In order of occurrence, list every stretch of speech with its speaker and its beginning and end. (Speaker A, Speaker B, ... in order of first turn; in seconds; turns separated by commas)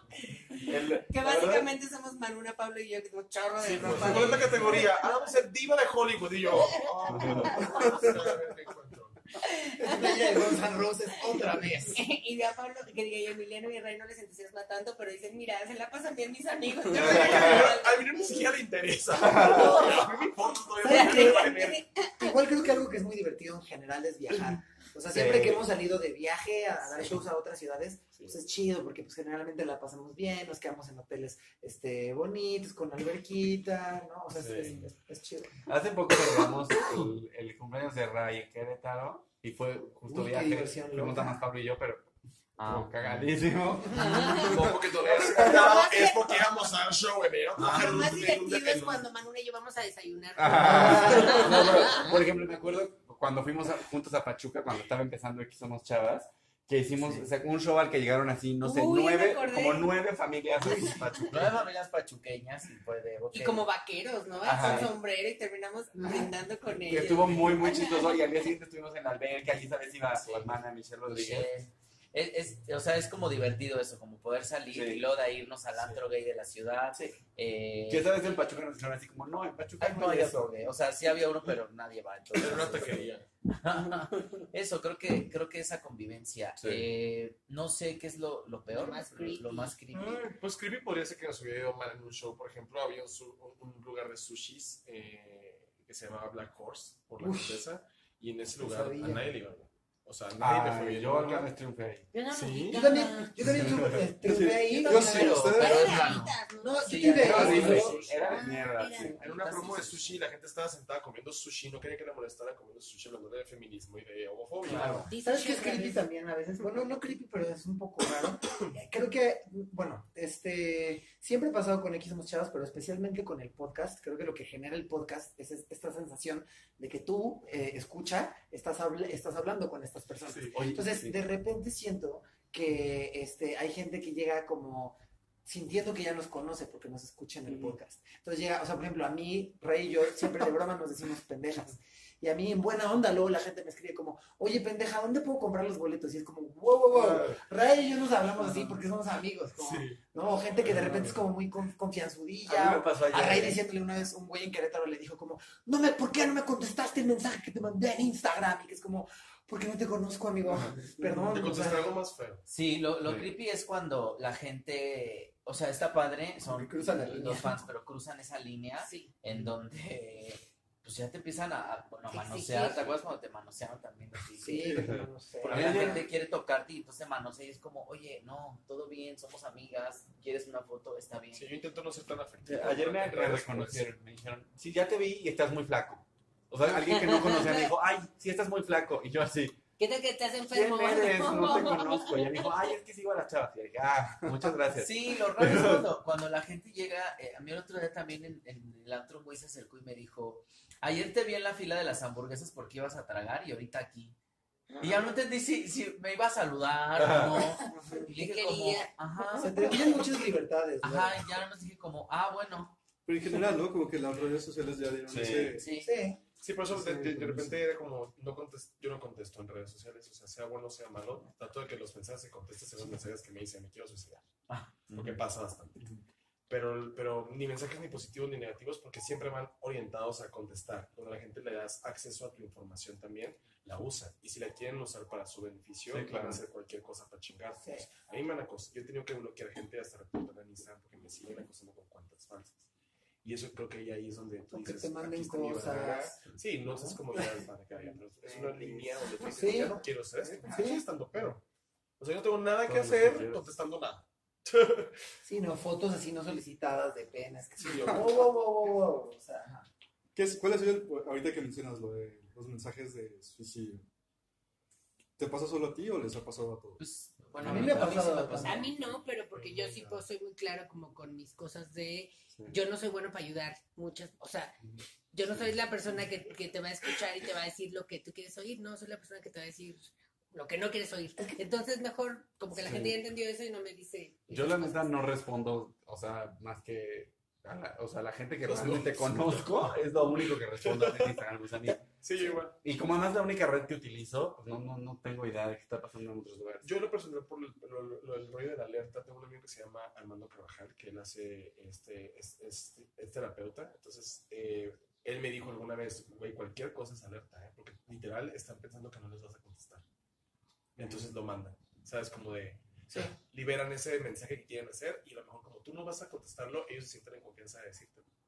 Speaker A: 0.4-5.1, Speaker B: 0.6-1.7, Speaker C: 3.6-9.2, Speaker A: 6.5-8.0, Speaker B: 7.1-7.5, Speaker D: 7.6-8.0, Speaker A: 9.4-10.5, Speaker D: 9.8-12.0, Speaker A: 11.8-18.5, Speaker B: 16.9-17.8, Speaker C: 16.9-21.8, Speaker B: 19.2-19.9, Speaker A: 19.4-20.2, Speaker D: 19.4-19.8, Speaker A: 20.8-22.4, Speaker D: 20.8-21.5, Speaker D: 22.2-35.6, Speaker B: 25.1-25.7, Speaker C: 34.3-34.9, Speaker B: 35.7-44.7, Speaker D: 40.0-41.4, Speaker E: 42.6-43.3, Speaker A: 43.9-44.6, Speaker E: 43.9-45.1, Speaker C: 44.3-49.0, Speaker A: 45.3-46.4, Speaker A: 47.6-52.2, Speaker E: 47.6-48.0, Speaker B: 50.4-61.6, Speaker D: 50.7-51.3, Speaker E: 57.0-57.3, Speaker A: 58.6-59.9, Speaker A: 60.7-61.0, Speaker E: 61.3-63.7, Speaker A: 63.3-68.3, Speaker B: 64.4-64.9, Speaker E: 64.6-64.9, Speaker B: 66.9-71.5, Speaker E: 71.1-78.2, Speaker B: 74.7-75.0, Speaker B: 77.9-80.7, Speaker E: 79.8-90.3, Speaker C: 82.3-83.2, Speaker B: 86.6-86.8, Speaker A: 88.7-89.7, Speaker C: 89.9-101.5, Speaker D: 97.2-97.6, Speaker D: 98.6-99.3, Speaker B: 100.4-102.1, Speaker A: 102.1-103.5, Speaker C: 102.3-102.7, Speaker D: 102.7-105.5, Speaker B: 103.4-104.0, Speaker F: 104.2-105.9, Speaker A: 104.6-109.3, Speaker E: 104.8-107.8, Speaker D: 106.6-108.0, Speaker B: 107.2-110.2, Speaker F: 107.4-107.9, Speaker C: 107.5-108.3, Speaker C: 108.9-115.0, Speaker B: 114.7-115.1, Speaker A: 115.1-116.1, Speaker D: 115.2-161.9, Speaker A: 116.6-116.9, Speaker B: 130.5-131.2, Speaker F: 137.5-137.8, Speaker B: 146.9-147.4, Speaker B: 149.6-150.0, Speaker B: 150.6-151.1, Speaker F: 150.9-151.1, Speaker B: 152.4-153.6, Speaker C: 161.1-162.4, Speaker E: 162.5-181.5, Speaker B: 163.1-163.3, Speaker F: 166.5-167.3, Speaker D: 166.7-167.6, Speaker A: 168.8-169.1, Speaker A: 172.1-173.0, Speaker D: 174.4-176.1, Speaker F: 174.5-174.9, Speaker B: 174.8-176.1, Speaker C: 181.3-183.9, Speaker B: 182.4-189.6, Speaker A: 186.7-187.7, Speaker A: 189.8-192.7, Speaker B: 190.5-195.9, Speaker E: 194.7-204.2, Speaker D: 204.7-205.0, Speaker E: 204.8-209.8, Speaker B: 206.9-207.5, Speaker F: 207.7-208.1, Speaker A: 208.0-209.5, Speaker D: 209.4-211.3, Speaker E: 210.8-212.8, Speaker F: 213.1-215.8, Speaker B: 215.1-215.6, Speaker E: 215.5-215.9, Speaker D: 215.8-216.2, Speaker C: 216.4-224.2, Speaker F: 216.7-217.6, Speaker E: 224.5-225.2, Speaker C: 224.9-225.9, Speaker C: 226.5-242.6, Speaker B: 235.9-236.4, Speaker C: 243.2-251.4, Speaker D: 244.5-248.6, Speaker D: 249.2-249.9, Speaker D: 250.4-250.8, Speaker C: 252.0-255.1, Speaker B: 252.7-253.4, Speaker D: 255.2-259.7, Speaker C: 257.6-258.1, Speaker F: 260.1-263.9, Speaker F: 265.2-266.8, Speaker E: 266.8-268.8, Speaker D: 267.4-268.7, Speaker F: 267.4-267.9, Speaker A: 268.4-274.6, Speaker F: 269.4-270.0, Speaker A: 275.1-284.9, Speaker B: 282.5-283.0, Speaker B: 284.3-292.0, Speaker C: 288.4-291.2, Speaker C: 291.8-292.6, Speaker B: 292.5-296.7, Speaker C: 296.6-309.8, Speaker F: 310.8-311.1, Speaker C: 310.8-318.1